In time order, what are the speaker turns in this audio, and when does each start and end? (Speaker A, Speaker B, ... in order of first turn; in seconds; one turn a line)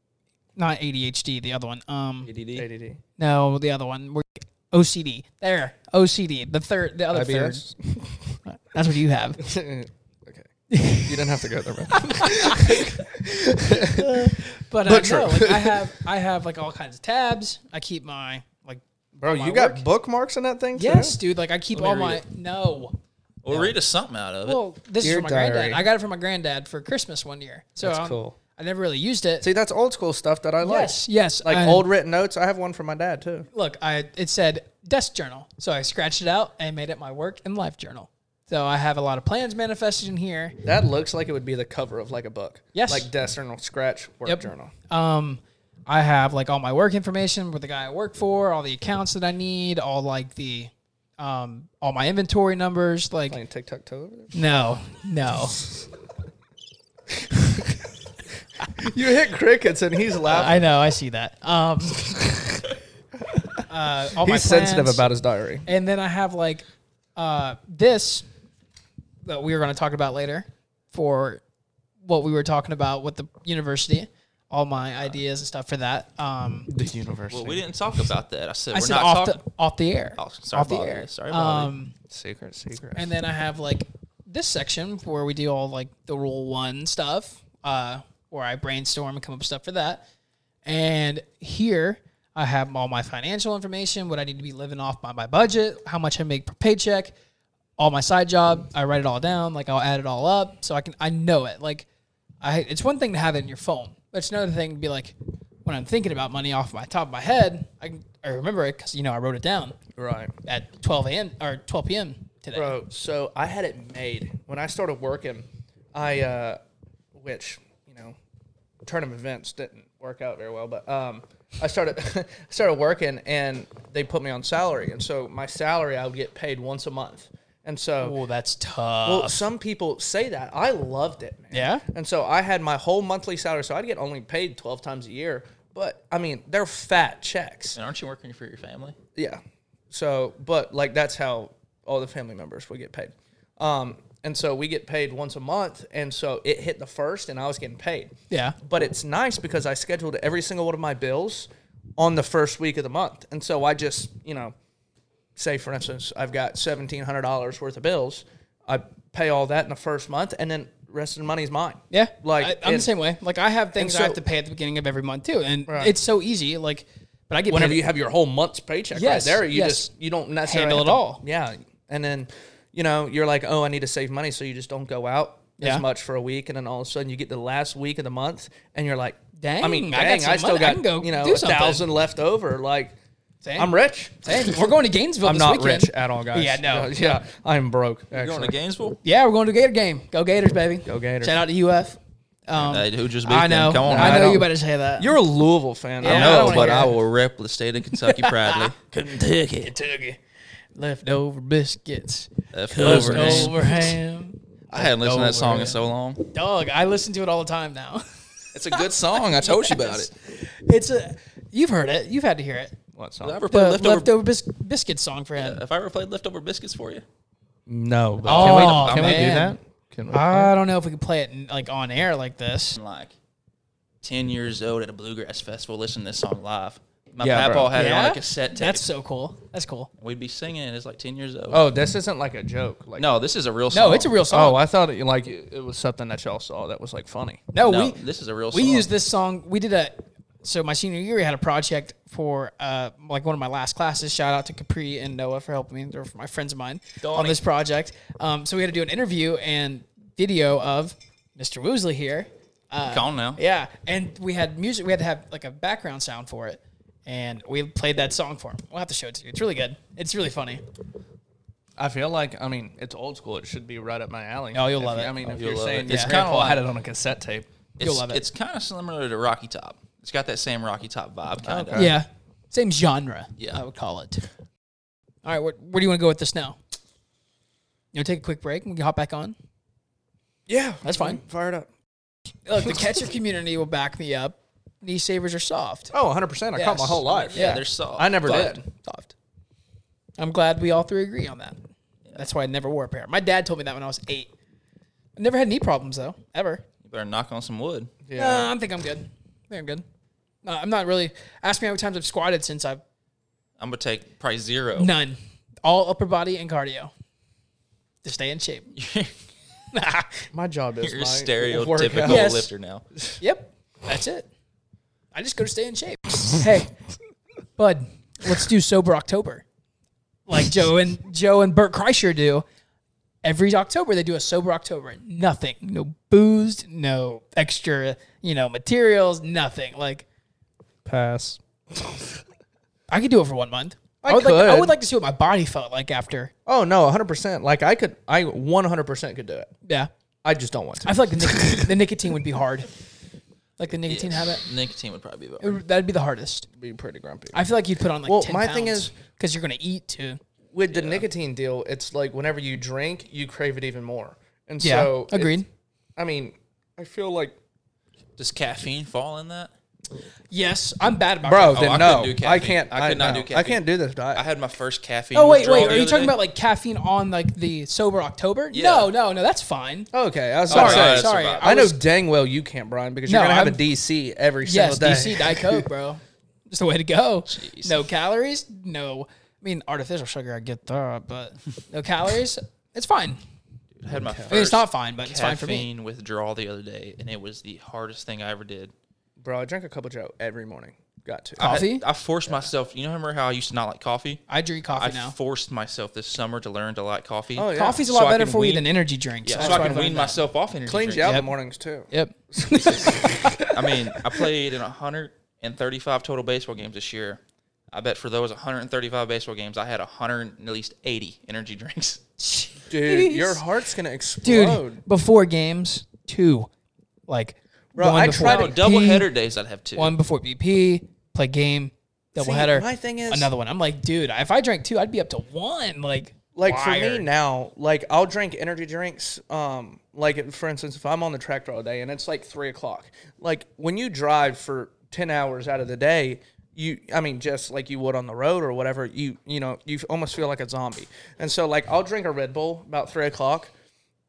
Speaker A: 0.6-2.3
Speaker B: 2.2-2.7
Speaker C: 2.6-3.0
Speaker A: 3.2-7.6
Speaker C: 7.1-8.4
Speaker A: 8.4-9.5
Speaker C: 9.4-10.5
Speaker A: 10.7-13.0
Speaker C: 11.0-15.8
Speaker A: 13.7-19.8
Speaker C: 19.2-21.2
Speaker A: 20.8-23.0
Speaker B: 21.7-22.2
Speaker B: 23.4-24.6
Speaker A: 24.4-29.5
Speaker C: 25.0-25.9
Speaker C: 27.8-28.4
Speaker C: 29.4-33.5
Speaker A: 30.6-31.9
Speaker A: 33.5-40.6
Speaker C: 40.6-44.7
Speaker A: 42.7-43.1
Speaker A: 44.2-53.4
Speaker C: 53.3-54.3
Speaker A: 54.3-55.6
Speaker C: 58.8-60.6
Speaker A: 60.3-62.2
Speaker C: 62.1-62.6
Speaker C: 63.3-63.6
Speaker A: 63.7-65.0
Speaker C: 64.2-65.7
Speaker A: 65.7-66.7
Speaker A: 67.2-68.2
Speaker A: 69.2-71.4
Speaker A: 72.0-76.7
Speaker C: 76.7-77.6
Speaker B: 77.3-79.4
Speaker A: 78.7-82.0
Speaker B: 80.2-81.7
Speaker C: 82.1-83.1
Speaker A: 83.0-90.0
Speaker A: 90.7-97.1
Speaker A: 97.8-101.9
Speaker A: 102.4-109.8
Speaker C: 110.0-110.3
Speaker A: 110.5-112.8
Speaker C: 112.5-116.6
Speaker C: 117.2-118.2
Speaker C: 118.8-128.2
Speaker A: 128.0-129.4
Speaker C: 129.1-137.8
Speaker A: 131.5-131.8
Speaker B: 137.8-139.0
Speaker C: 139.2-154.5
Speaker A: 148.3-148.6
Speaker C: 155.4-162.9
Speaker A: 161.9-167.8
Speaker C: 163.8-164.2
Speaker C: 165.7-165.9
Speaker C: 167.5-183.0
Speaker A: 168.9-169.9
Speaker A: 170.4-171.2
Speaker A: 179.4-181.9
Speaker A: 183.4-187.2
Speaker C: 183.6-184.7
Speaker C: 185.2-188.6
Speaker B: 188.1-189.0
Speaker A: 189.0-195.2
Speaker C: 190.8-191.4
Speaker B: 192.6-194.5
Speaker C: 193.8-196.9
Speaker A: 196.0-197.0
Speaker B: 196.0-198.8
Speaker A: 198.0-200.2
Speaker A: 200.8-212.8
Speaker B: 202.5-203.7
Speaker C: 202.8-203.9
Speaker B: 204.7-206.2
Speaker B: 208.5-210.1
Speaker C: 212.9-213.4
Speaker B: 213.2-214.1
Speaker A: 213.5-215.6
Speaker B: 215.4-217.1
Speaker C: 217.7-220.5
Speaker B: 218.2-219.4
Speaker A: 218.3-219.6
Speaker A: 220.1-222.8
Speaker B: 222.8-223.1
Speaker B: 224.0-228.9
Speaker C: 227.2-227.8
Speaker A: 227.7-229.9
Speaker B: 230.0-231.6
Speaker C: 231.5-233.1
Speaker B: 233.0-234.1
Speaker A: 233.7-234.6
Speaker C: 234.3-237.4
Speaker A: 237.5-238.0
Speaker B: 237.6-238.9
Speaker A: 238.5-260.6
Speaker B: 247.0-247.4
Speaker B: 252.9-253.4
Speaker C: 261.8-267.5
Speaker A: 264.5-265.2
Speaker B: 265.2-266.6
Speaker A: 265.9-266.2
Speaker B: 267.8-271.9
Speaker A: 267.8-268.2
Speaker C: 271.4-272.0
Speaker A: 271.8-274.3
Speaker A: 275.2-276.6
Speaker A: 277.9-279.4
Speaker C: 280.5-281.7
Speaker A: 280.8-281.2
Speaker A: 282.5-285.9
Speaker C: 285.9-288.6
Speaker A: 286.6-287.7
Speaker B: 287.3-288.6
Speaker A: 288.2-289.1
Speaker A: 290.2-291.6
Speaker A: 292.1-294.3
Speaker A: 295.2-296.6
Speaker B: 296.8-297.9
Speaker C: 298.1-298.5
Speaker A: 298.1-299.8
Speaker A: 300.4-302.8
Speaker B: 303.6-304.9
Speaker A: 304.8-306.9
Speaker A: 308.0-308.7
Speaker B: 308.8-309.1
Speaker A: 309.7-310.3
Speaker C: 310.3-312.3
Speaker B: 310.8-312.8
Speaker A: 312.1-312.5
Speaker A: 313.2-314.3
Speaker A: 315.1-316.7
Speaker A: 317.6-319.4
Speaker A: 320.3-322.4
Speaker A: 323.2-330.1
Speaker C: 330.9-332.0
Speaker A: 332.9-336.3
Speaker C: 334.0-334.8
Speaker C: 336.5-339.5
Speaker A: 339.6-339.9
Speaker C: 340.2-341.8
Speaker A: 340.9-342.7
Speaker A: 343.6-344.4
Speaker B: 343.9-345.6
Speaker A: 345.4-346.5
Speaker C: 346.6-347.4
Speaker A: 347.3-350.2
Speaker C: 348.0-348.9
Speaker C: 350.5-355.4
Speaker B: 350.7-351.0
Speaker A: 354.6-355.5
Speaker C: 356.0-357.4
Speaker B: 358.2-359.5
Speaker A: 360.3-362.0
Speaker C: 361.2-364.2
Speaker B: 361.5-366.2
Speaker A: 365.1-369.9
Speaker B: 368.5-368.9
Speaker C: 369.9-375.7
Speaker B: 370.5-371.5
Speaker A: 370.5-371.8
Speaker A: 373.1-373.6
Speaker A: 374.4-383.2
Speaker B: 377.3-377.8
Speaker B: 383.8-388.7
Speaker C: 384.0-384.4
Speaker A: 384.3-385.7
Speaker C: 389.2-391.6
Speaker A: 391.4-391.8
Speaker B: 391.4-394.2
Speaker A: 394.3-395.1
Speaker B: 394.8-398.7
Speaker C: 397.4-398.0
Speaker A: 397.5-400.2
Speaker B: 399.2-401.2
Speaker C: 399.4-400.0
Speaker C: 400.7-403.4
Speaker A: 401.0-401.3
Speaker A: 401.9-403.5
Speaker B: 403.4-407.2
Speaker B: 407.7-412.0
Speaker A: 412.2-413.4
Speaker C: 412.7-414.8
Speaker A: 414.2-416.5
Speaker A: 417.1-419.1
Speaker C: 417.8-418.6
Speaker B: 418.1-419.9
Speaker A: 419.8-427.1
Speaker C: 422.2-423.3
Speaker C: 426.4-443.5